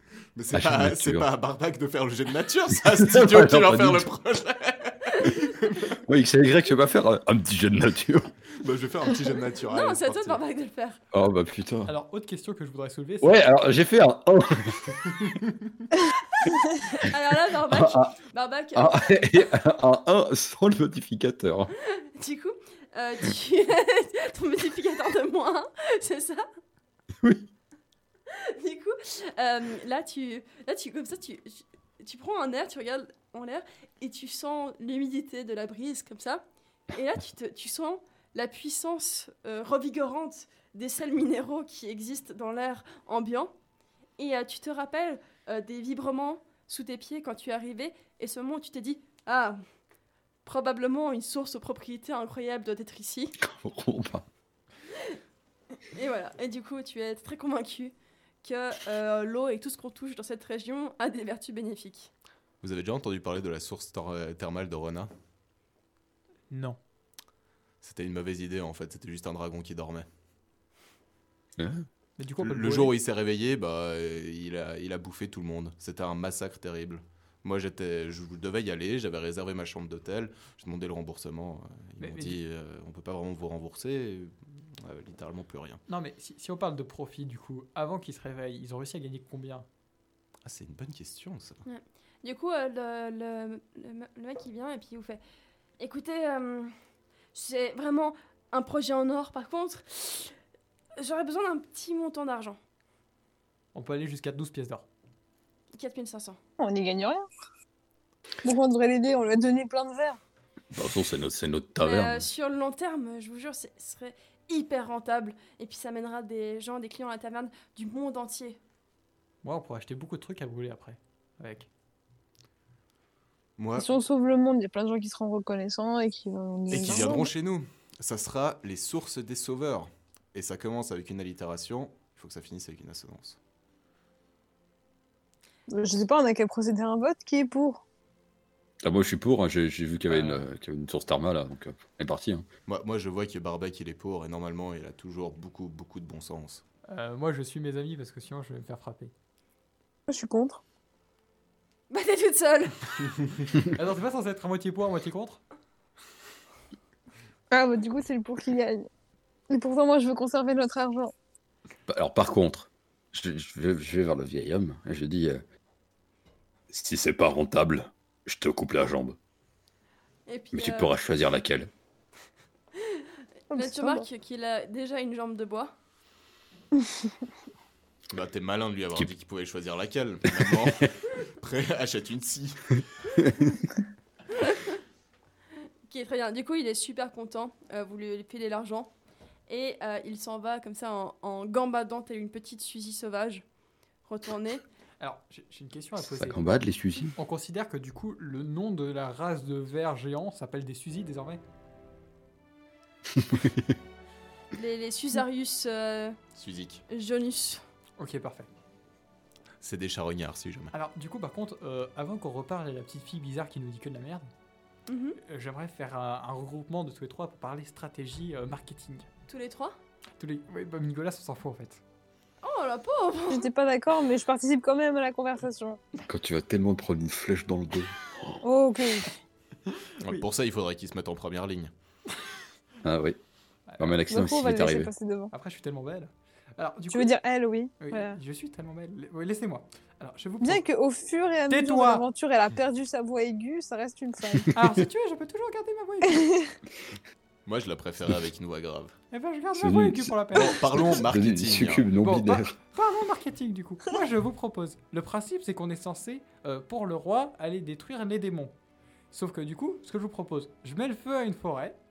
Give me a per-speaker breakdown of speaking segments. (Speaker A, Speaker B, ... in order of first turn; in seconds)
Speaker A: 0.3-6.0, 8.6-10.4, 62.6-65.1, 67.8-70.1, 72.4-85.8, 90.5-91.6, 123.6-123.9, 126.7-133.4, 142.7-146.6, 178.1-182.8, 206.3-206.8, 209.6-210.7, 230.0-231.7, 247.5-249.0, 250.3-251.9
Speaker B: 0.5-1.3, 3.0-4.1, 6.0-8.3, 11.1-11.9, 13.2-15.2, 16.6-17.1, 17.7-18.2, 18.7-21.7, 27.2-27.5, 53.4-54.3, 71.6-71.9, 110.7-112.3, 138.8-142.5, 161.9-165.4, 166.7-169.2, 170.5-171.7, 180.4-180.8, 196.2-197.2, 203.2-203.8, 226.1-228.4, 232.8-233.2, 233.8-234.9, 249.6-252.6
Speaker C: 9.7-11.0, 16.8-19.1, 21.9-26.5, 28.3-43.5, 44.2-49.6, 50.5-53.4, 54.9-55.2, 55.8-62.1, 91.7-95.2, 95.8-96.8, 97.3-100.4, 101.0-102.6, 105.8-106.4, 111.8-118.6, 151.9-152.9, 170.3-171.0, 172.8-175.8, 184.3-184.8, 185.9-188.9, 189.5-193.4, 194.1-194.6, 204.5-206.2, 206.9-207.6, 214.9-215.2, 219.3-219.8, 222.4-223.5
Speaker D: 11.9-13.5, 66.5-66.8, 72.2-73.0, 82.0-82.4, 85.9-89.7, 103.7-104.9, 119.4-121.7, 140.1-140.5, 146.9-149.1, 153.7-155.4, 195.0-196.4, 197.2-201.4, 208.0-208.5, 210.7-214.3, 215.2-219.1, 220.2-221.8, 229.7-230.1, 233.7-234.0, 235.3-237.1, 237.8-240.6, 241.5-242.0, 244.5-246.5, 249.1-251.0, 252.0-258.5, 259.1-261.8
Speaker E: 106.6-107.3, 108.4-110.2, 123.8-127.3, 135.7-137.8, 150.1-150.6, 157.5-158.9, 159.5-161.1, 173.5-174.1, 176.8-177.1, 223.3-225.8, 228.4-229.1, 234.1-235.3, 236.9-238.2, 240.4-244.5, 246.1-246.5